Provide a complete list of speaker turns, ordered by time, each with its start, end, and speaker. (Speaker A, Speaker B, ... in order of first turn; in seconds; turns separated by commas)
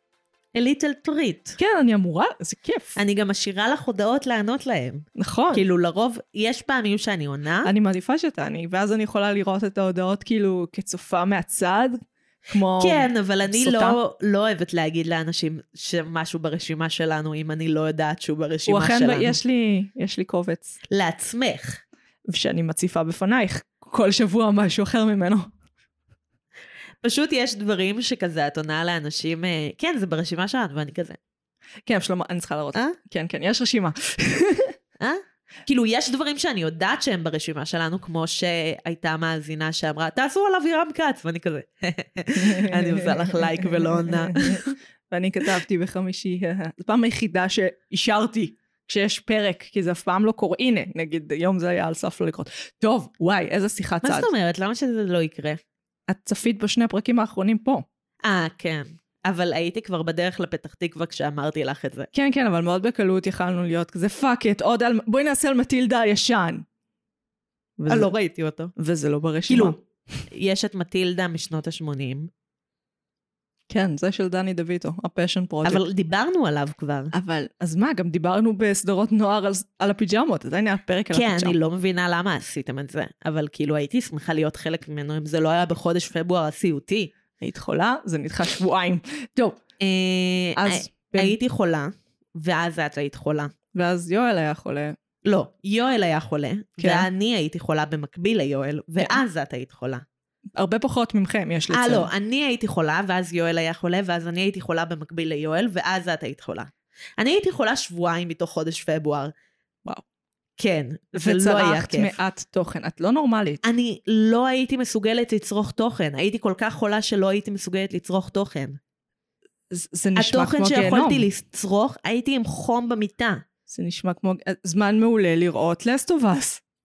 Speaker A: 0.5-1.6, Speaker B: 1.6-3.0, Speaker A: 3.0-7.7, Speaker B: 5.2-5.6, Speaker B: 7.6-14.0, Speaker A: 12.8-19.4, Speaker B: 18.7-20.8, Speaker A: 20.9-21.8, Speaker B: 22.3-25.5, Speaker A: 27.0-31.2, Speaker B: 31.9-34.7, Speaker A: 35.0-44.7, Speaker B: 42.3-54.3, Speaker A: 54.0-55.6, Speaker B: 56.1-57.8, Speaker A: 58.2-62.1, Speaker B: 62.1-66.7, Speaker B: 67.8-68.1, Speaker A: 67.9-68.7, Speaker B: 68.7-69.8, Speaker A: 69.5-69.8, Speaker A: 70.3-72.3, Speaker B: 73.7-75.8, Speaker A: 75.6-77.1, Speaker B: 77.1-81.5, Speaker A: 81.1-87.1, Speaker B: 87.4-89.6, Speaker A: 89.8-93.5, Speaker B: 90.6-91.3, Speaker B: 93.7-95.0, Speaker A: 95.2-100.0, Speaker B: 96.8-97.1, Speaker B: 100.5-102.1, Speaker A: 101.7-109.3, Speaker A: 110.6-112.2, Speaker B: 111.2-113.6, Speaker A: 113.6-118.8, Speaker B: 119.7-121.3, Speaker A: 120.2-123.4, Speaker B: 123.7-126.6